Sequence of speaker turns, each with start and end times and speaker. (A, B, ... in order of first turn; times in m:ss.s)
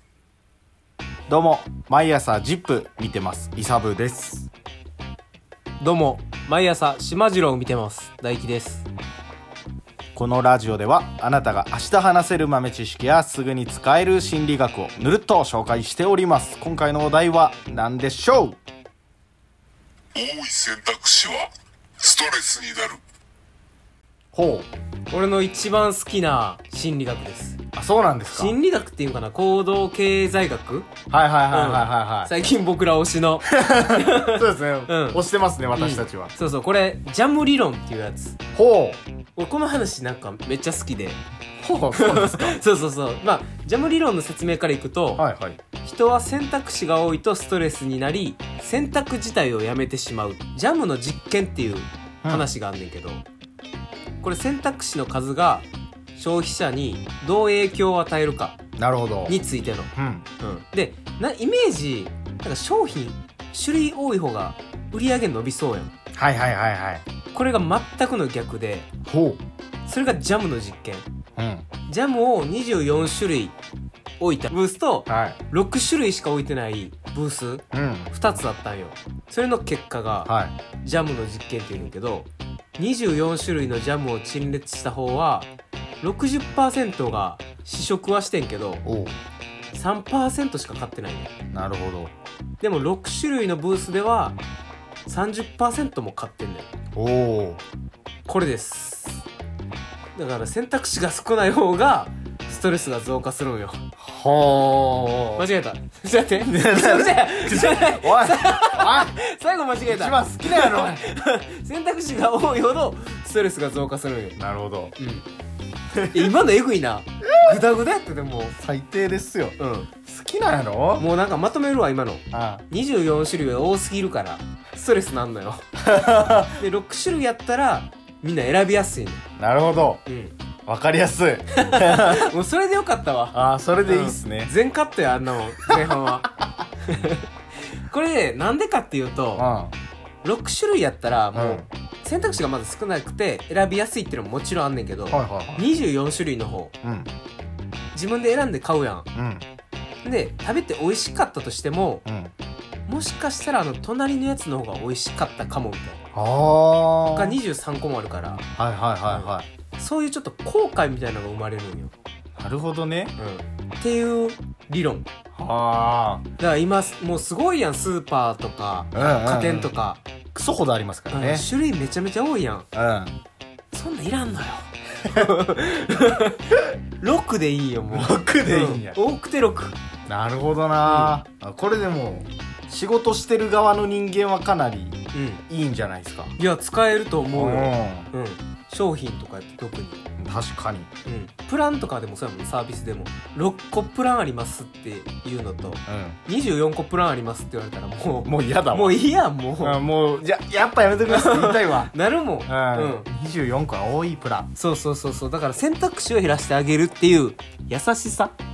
0:01.3-0:04.5 A
0:05.8-0:08.9 B
0:10.1-0:18.6 A
0:20.1-0:23.0 C
0:24.3-0:24.7 A
0:25.1-0:27.6 B
0:27.7-0:28.6 A
0:28.3-0:30.9 B
0:31.1-0:32.3 A
0:31.5-0:35.2 B
0:33.5-0:36.3 A
0:35.8-0:38.4 B
0:38.6-0:39.0 A
0:39.4-0:41.2 B
0:41.6-0:42.6 A
0:41.9-0:45.2 B
0:45.2-0:45.6 A
0:45.8-0:53.2 B
0:54.2-0:58.6 B
0:58.8-0:59.4 A
0:59.3-1:05.9 B
0:59.9-1:00.3 A
1:06.1-1:07.0 A
1:07.3-1:08.9 B
1:09.0-1:09.4 A
1:09.9-1:11.0 B
1:11.4-1:11.7 A
1:11.9-1:13.6 B
1:14.2-1:20.3 B
1:15.1-1:15.4 A
1:17.7-1:18.1 A
1:20.2-1:20.6 A
1:20.8-1:25.5 B
1:26.0-1:28.8 B
1:28.8-1:29.2 A
1:29.7-1:31.3 B
1:31.5-1:32.1 A
1:32.6-1:34.4 B
1:35.0-1:36.7 B
1:36.9-1:37.6 A
1:38.2-1:39.2 B
1:40.1-1:43.8 B
1:44.0-1:45.5 A
1:45.4-1:54.4 B
1:46.4-1:49.1 A
1:49.8-1:51.0 A
1:54.4-1:54.9 A
1:55.0-1:55.3 B
1:55.9-1:56.3 A
1:56.1-1:58.6 B
1:57.3-1:57.6 A
1:58.6-2:01.1 A
1:59.6-1:59.9 B
2:01.0-2:09.2 B
2:02.3-2:02.6 A
2:05.8-2:06.6 A
2:09.4-2:10.0 A
2:10.1-2:10.3 B
2:10.7-2:12.3 A
2:11.5-2:16.3 B
2:13.3-2:14.5 A
2:15.7-2:16.4 A
2:16.9-2:17.3 B
2:17.9-2:19.5 B
2:19.4-2:19.7 A
2:20.2-2:26.7 B
2:21.3-2:21.7 A
2:25.1-2:25.7 A
2:26.8-2:27.1 A
2:27.9-2:29.1 B
2:29.2-2:29.4 A
2:30.0-2:32.0 B
2:32.1-2:32.3 A
2:32.9-2:36.0 B
2:36.1-2:37.4 A
2:37.1-2:38.5 B
2:38.6-2:39.5 A
2:39.1-2:41.9 B
2:42.4-2:43.1 A
2:43.2-2:45.1 B
2:45.3-2:46.3 A
2:46.4-2:50.0 B
2:48.9-2:49.7 A
2:50.3-2:51.5 A
2:51.1-2:52.7 B
2:52.7-2:53.2 A
2:53.7-2:59.8 B
2:57.9-2:59.0 A
3:00.1-3:06.4 A
3:00.8-3:01.1 B
3:05.1-3:05.4 B
3:06.4-3:10.0 B
3:07.3-3:08.1 A
3:10.2-3:10.9 A
3:11.0-3:19.8 B
3:15.9-3:16.2 A
3:18.2-3:19.0 A
3:19.6-3:21.9 A
3:21.1-3:23.1 B
3:22.5-3:24.5 A
3:24.6-3:28.3 B